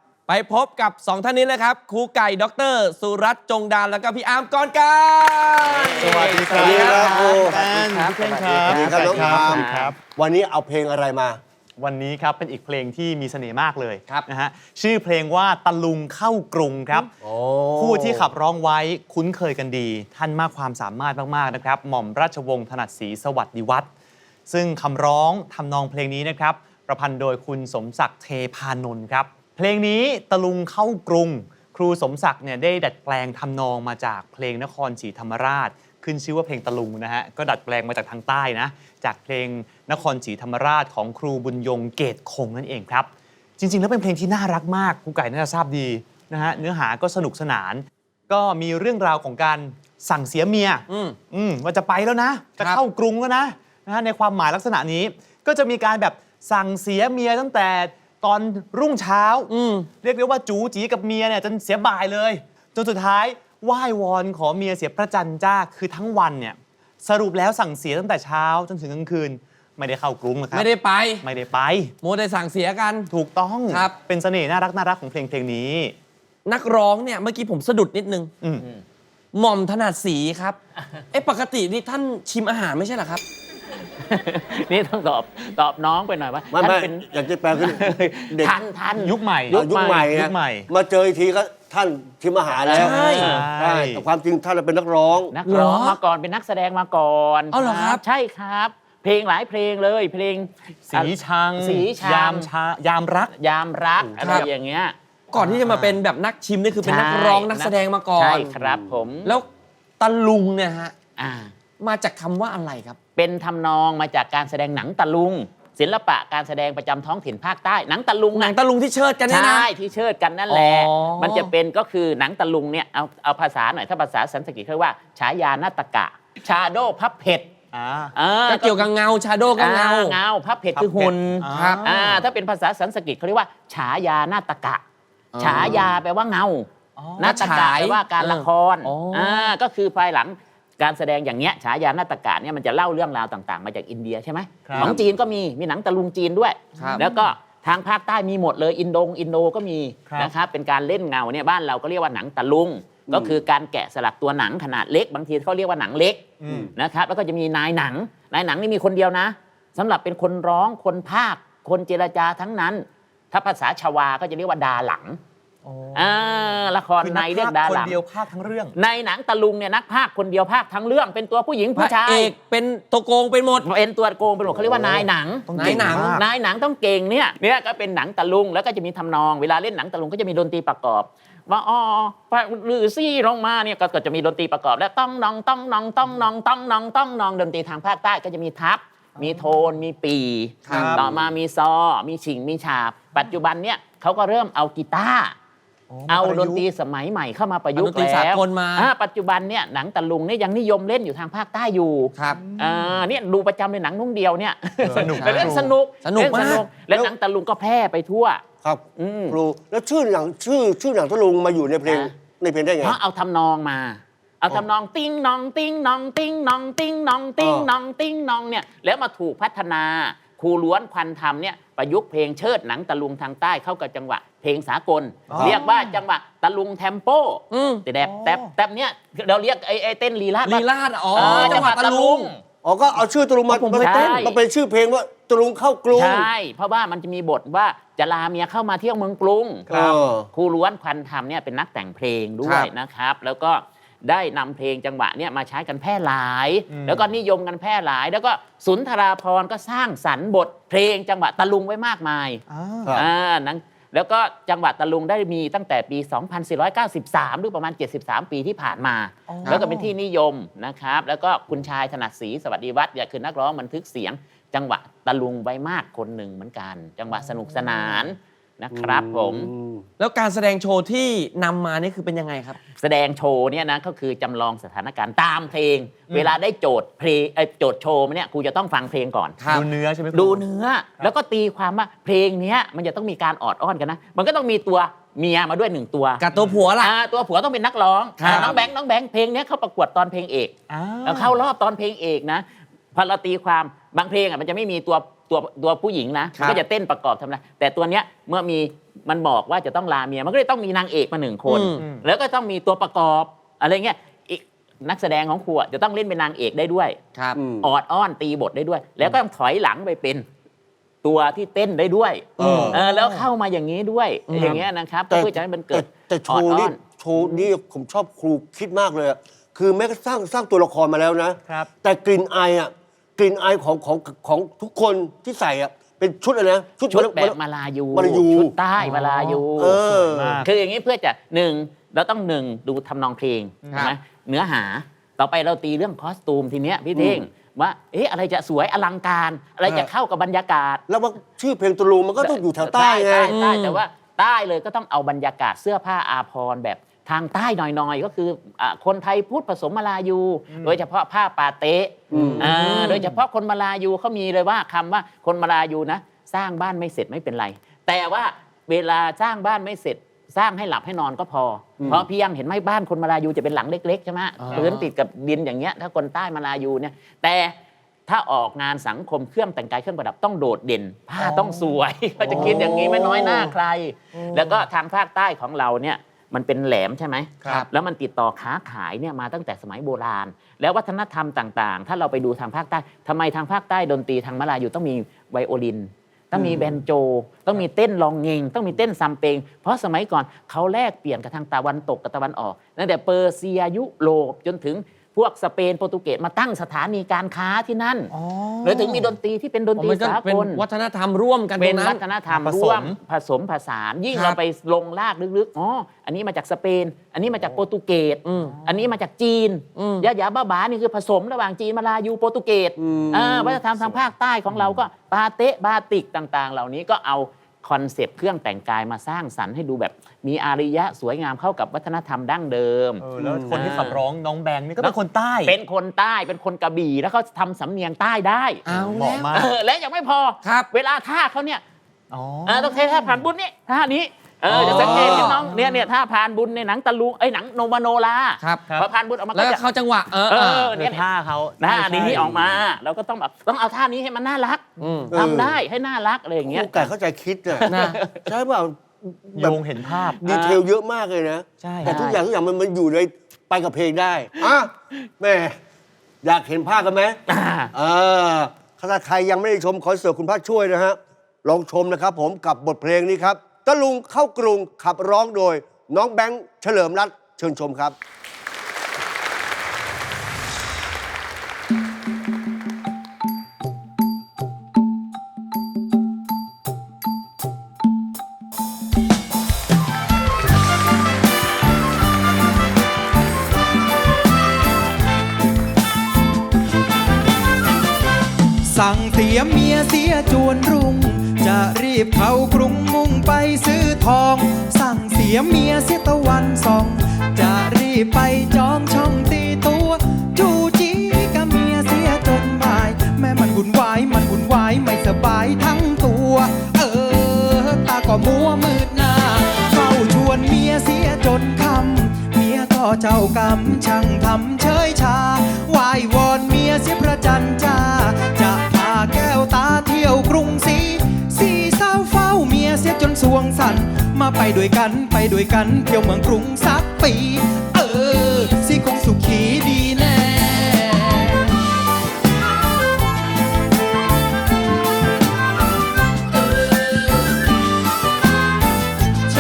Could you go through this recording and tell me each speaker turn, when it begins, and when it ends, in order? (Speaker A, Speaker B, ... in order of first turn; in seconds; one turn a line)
Speaker A: 0.3-9.0
Speaker B: 5.7-7.2
Speaker C: 6.0-10.0
Speaker D: 6.5-7.6
Speaker B: 7.8-9.9
Speaker D: 8.7-11.4
Speaker C: 11.8-17.1
Speaker D: 17.2-18.3
Speaker C: 17.8-23.9
Speaker C: 24.5-70.7
Speaker A: 50.9-51.2
Speaker A: 59.5-59.9
Speaker A: 70.5-71.2
Speaker C: 71.2-71.9
Speaker A: 72.0-73.1
Speaker C: 73.1-75.9
Speaker A: 73.7-73.9
Speaker A: 76.5-78.3
Speaker A: 79.3-80.6
Speaker A: 81.1-83.2
Speaker B: 84.0-90.1
Speaker D: 86.5-88.5
Speaker C: 89.0-90.7
Speaker D: 89.5-95.3
Speaker B: 92.7-93.4
Speaker A: 92.7-93.5
Speaker C: 92.8-94.0
Speaker B: 95.3-102.5
Speaker A: 95.5-96.0
Speaker A: 97.5-98.0
Speaker C: 100.9-103.3
Speaker B: 103.3-105.0
Speaker A: 104.2-104.5
Speaker A: 105.3-108.5
Speaker C: 105.4-106.0
Speaker B: 106.8-109.3
Speaker D: 108.5-108.9
Speaker A: 110.0-110.9
Speaker B: 111.2-111.5
Speaker A: 111.8-113.0
Speaker B: 113.2-118.5
Speaker A: 118.3-119.7
Speaker B: 119.3-127.5
Speaker A: 120.5-121.5
Speaker C: 127.7-128.1
Speaker B: 128.1-128.8
Speaker A: 128.5-130.2
Speaker B: 129.6-131.2
Speaker A: 130.8-131.8
Speaker C: 131.4-132.3
Speaker B: 131.8-134.8
Speaker A: 135.3-135.9
Speaker B: 135.4-165.2
Speaker C: 135.5-135.8
Speaker C: 137.0-137.5
Speaker A: 137.2-139.5
Speaker C: 144.7-145.0
Speaker C: 146.8-147.3
Speaker C: 150.1-150.3
Speaker D: 153.1-153.4
Speaker C: 156.4-156.7
Speaker C: 165.7-168.8
Speaker B: 165.9-168.0
Speaker B: 168.8-172.3
Speaker A: 171.8-173.7
Speaker B: 173.6-195.3
Speaker D: 174.5-175.1
Speaker C: 175.5-176.2
Speaker A: 175.6-176.1
Speaker C: 189.2-189.5
Speaker A: 190.7-191.0
Speaker C: 190.7-191.1
Speaker C: 195.9-196.7
Speaker B: 196.1-208.4
Speaker A: 197.8-198.9
Speaker A: 202.2-202.4
Speaker C: 202.3-203.0
Speaker C: 204.9-205.7
Speaker A: 205.1-205.5
Speaker A: 206.0-206.6
Speaker D: 206.2-207.1
Speaker D: 208.6-213.0
Speaker B: 209.0-209.4
Speaker B: 211.9-212.1
Speaker B: 212.8-232.4
Speaker D: 217.4-217.7
Speaker C: 225.3-226.0
Speaker D: 225.3-225.6
Speaker A: 227.5-227.8
Speaker C: 228.0-228.5
Speaker A: 230.4-232.3
Speaker D: 231.2-231.7
Speaker D: 232.6-236.3
Speaker A: 233.5-234.2
Speaker B: 233.8-234.4
Speaker B: 235.9-239.8
Speaker D: 239.7-240.3
Speaker B: 240.3-269.5
Speaker A: 242.4-242.7
Speaker C: 246.7-247.1
Speaker C: 252.5-253.0
Speaker C: 259.3-259.9
Speaker C: 267.1-268.1
Speaker D: 268.7-269.9
Speaker A: 270.0-272.6
Speaker B: 272.7-279.4
Speaker C: 276.1-276.4
Speaker A: 279.4-279.6
Speaker C: 279.5-280.4
Speaker B: 280.1-286.2
Speaker A: 286.2-286.9
Speaker C: 286.3-286.6
Speaker B: 286.8-307.0
Speaker A: 288.2-288.6
Speaker C: 288.2-288.6
Speaker C: 290.7-291.4
Speaker A: 296.4-296.6
Speaker A: 301.5-301.8
Speaker C: 301.8-302.0
Speaker A: 307.1-307.4
Speaker D: 307.4-307.7
Speaker B: 307.6-310.2
Speaker B: 311.0-317.4
Speaker D: 312.4-312.8
Speaker A: 312.4-312.7
Speaker C: 312.4-313.3
Speaker A: 314.3-314.6
Speaker D: 315.1-327.4
Speaker C: 321.5-321.7
Speaker B: 326.9-329.8
Speaker D: 327.9-328.5
Speaker C: 328.8-330.5
Speaker D: 329.6-330.4
Speaker B: 330.4-340.8
Speaker C: 333.6-333.9
Speaker D: 336.9-337.2
Speaker D: 340.9-343.4
Speaker B: 342.2-367.6
Speaker A: 343.2-343.8
Speaker C: 350.5-350.8
Speaker D: 352.1-352.5
Speaker A: 352.4-353.1
Speaker D: 361.8-362.1
Speaker A: 364.4-364.9
Speaker B: 368.1-400.6
Speaker C: 371.2-371.8
Speaker C: 372.3-373.0
Speaker A: 372.4-373.2
Speaker C: 374.1-374.7
Speaker D: 386.4-386.6
Speaker C: 398.1-399.2
Speaker A: 399.8-402.0
Speaker B: 401.6-424.0
Speaker C: 402.3-403.0
Speaker A: 404.1-404.4
Speaker A: 408.2-408.6
Speaker C: 408.4-408.9
Speaker A: 409.8-410.1
Speaker D: 412.8-413.6
Speaker C: 413.8-414.8
Speaker C: 423.0-425.6
Speaker D: 423.2-423.6
Speaker B: 424.8-428.6
Speaker A: 428.7-429.3
Speaker C: 428.7-429.5
Speaker B: 429.3-431.6
Speaker A: 430.4-430.7
Speaker C: 432.1-433.3
Speaker B: 432.5-439.6
Speaker A: 434.5-435.4
Speaker D: 434.5-435.4
Speaker C: 434.6-435.9
Speaker A: 439.3-440.7
Speaker B: 440.3-441.1
Speaker C: 440.4-442.4
Speaker B: 441.6-446.9
Speaker A: 444.8-445.1
Speaker D: 445.1-445.6
Speaker D: 446.4-455.6
Speaker B: 447.6-448.3
Speaker A: 447.7-448.0
Speaker C: 449.4-450.2
Speaker B: 450.2-450.6
Speaker C: 451.6-452.0
Speaker B: 451.8-452.2
Speaker D: 456.2-457.2
Speaker B: 457.3-457.7
Speaker D: 457.7-467.9
Speaker E: 488.6-531.6